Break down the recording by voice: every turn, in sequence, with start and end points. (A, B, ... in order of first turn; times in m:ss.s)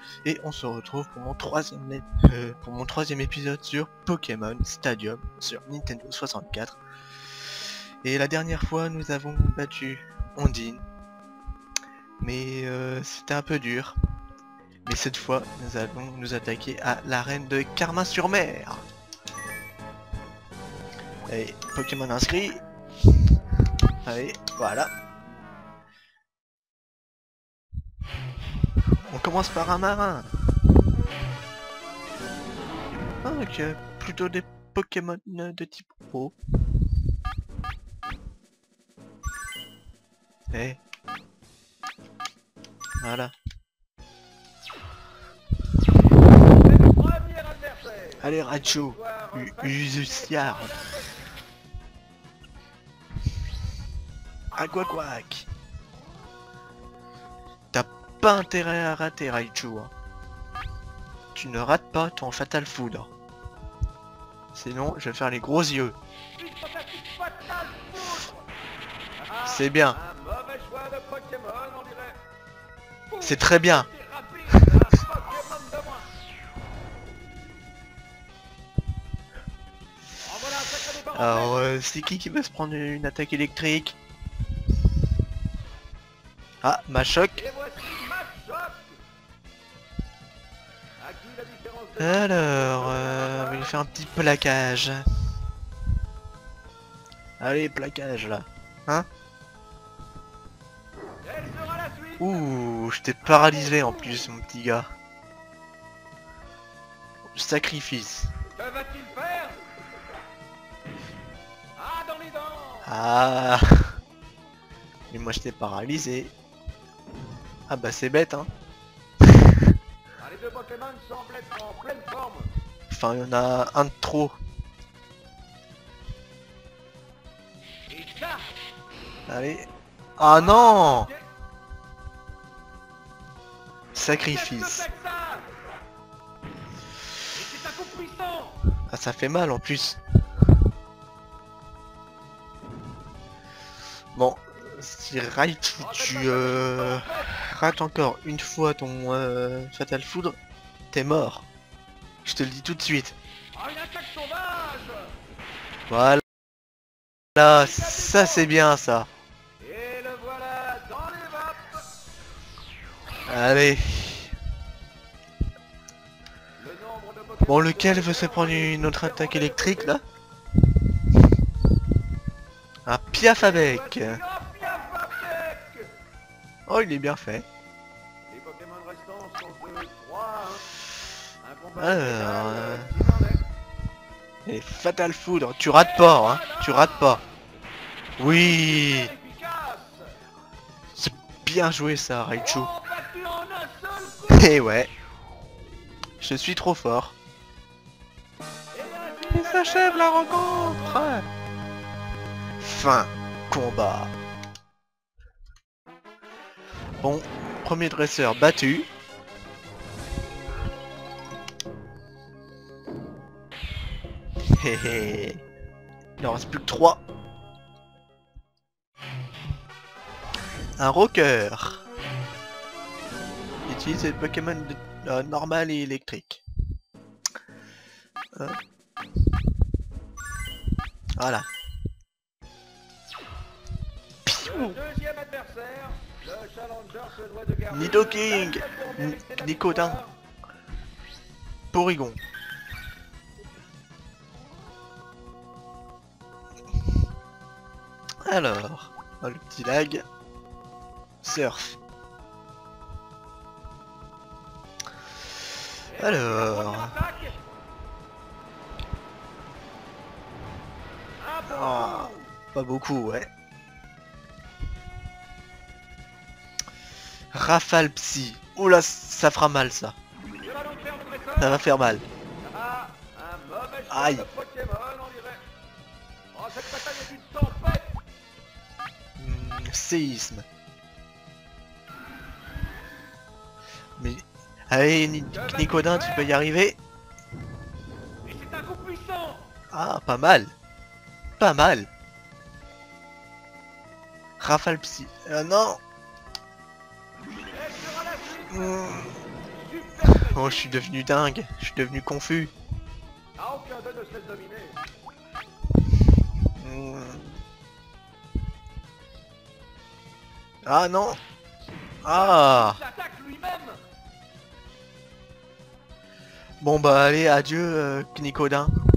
0:00.2-0:06.8 A
0:08.0-0:10.8 A
0:12.2-0:14.0 A
0:14.8-0:18.8 A
0:21.3-0:22.6 A
0:24.0-0:24.9 A
0:29.0-0:30.3 A
0:33.2-0:36.4 A
0:40.5-0:40.8 A
0:43.0-0:43.3 A
0:46.4-0:51.3 B
0:48.2-0:50.7 A
0:54.5-0:55.5 A
0:57.7-0:59.9 A
1:01.3-1:03.1 A
1:04.5-1:06.0 A
1:06.3-1:08.4 B
1:09.2-1:12.2 B
1:09.4-1:10.0 A
1:13.1-1:16.1 B
1:13.2-1:13.9 A
1:20.2-1:21.6 B
1:21.1-1:24.0 A
1:26.6-1:27.4 A
1:27.3-1:29.0 B
1:31.0-1:33.8 B
1:32.0-1:35.0 A
1:37.4-1:39.1 A
1:41.2-1:42.5 B
1:42.2-1:44.9 A
1:43.2-1:44.3 B
1:47.3-1:48.3 A
1:48.5-1:49.6 B
1:51.8-1:52.9 B
1:52.8-1:54.0 A
1:55.1-1:56.3 A
1:57.7-1:58.5 A
1:59.2-1:59.7 A
2:00.2-2:02.5 B
2:02.9-2:04.4 A
2:07.9-2:08.5 B
2:09.3-2:09.7 A
2:10.2-2:11.1 A
2:10.2-2:11.2 B
2:13.9-2:14.8 A
2:14.1-2:15.5 B
2:17.3-2:18.6 B
2:18.9-2:20.0 A
2:24.1-2:30.4 A
2:25.8-2:27.3 B
2:30.9-2:31.5 A
2:32.2-2:33.2 A
2:33.5-2:35.1 B
2:35.9-2:36.2 A
2:37.4-2:39.1 A
2:37.4-2:38.5 B
2:39.6-2:41.8 B
2:43.2-2:44.3 A
2:46.6-2:50.0 B
2:47.5-2:50.0 A
2:52.8-2:54.2 A
2:53.2-2:55.9 B
2:56.7-2:57.5 A
2:58.3-3:00.7 B
3:01.4-3:03.4 B
3:01.8-3:02.9 A
3:04.4-3:07.2 A
3:05.7-3:07.3 B
3:08.2-3:09.1 A
3:08.2-3:10.1 B
3:10.9-3:12.7 A
3:12.3-3:14.6 B
3:14.3-3:14.9 A
3:16.2-3:17.1 A
3:18.7-3:21.1 B
3:19.3-3:21.3 A
3:22.6-3:24.1 A
3:27.0-3:28.9 A
3:34.5-3:35.4 A
3:36.2-3:37.0 A
3:40.8-3:41.8 A
3:43.6-3:46.4 A
3:51.2-3:51.5 A
3:54.2-3:54.8 A
3:54.3-4:00.1 B
3:57.7-4:00.0 A
4:01.7-4:02.2 A
4:08.2-4:10.0 A
4:11.2-4:11.8 A
4:15.9-4:17.4 B
4:16.0-4:16.9 A
4:21.2-4:22.3 B
4:21.5-4:23.3 A
4:27.3-4:30.0 A
4:30.4-4:31.6 B
4:31.4-4:32.0 A
4:32.4-4:35.4 B
4:33.9-4:34.2 A
4:36.3-4:38.0 B
4:39.2-4:40.4 A
4:44.0-4:46.8 A
4:45.3-4:46.3 B
4:48.2-4:49.5 B
4:49.7-4:50.5 A
4:51.4-4:51.9 A
4:54.4-4:55.8 A
4:57.5-5:00.8 B
4:58.5-4:59.1 A
5:00.1-5:02.5 A
5:03.4-5:04.8 B
5:06.6-5:07.4 A
5:10.6-5:11.2 A
5:12.0-5:12.8 A
5:12.1-5:13.8 B
5:16.6-5:18.8 A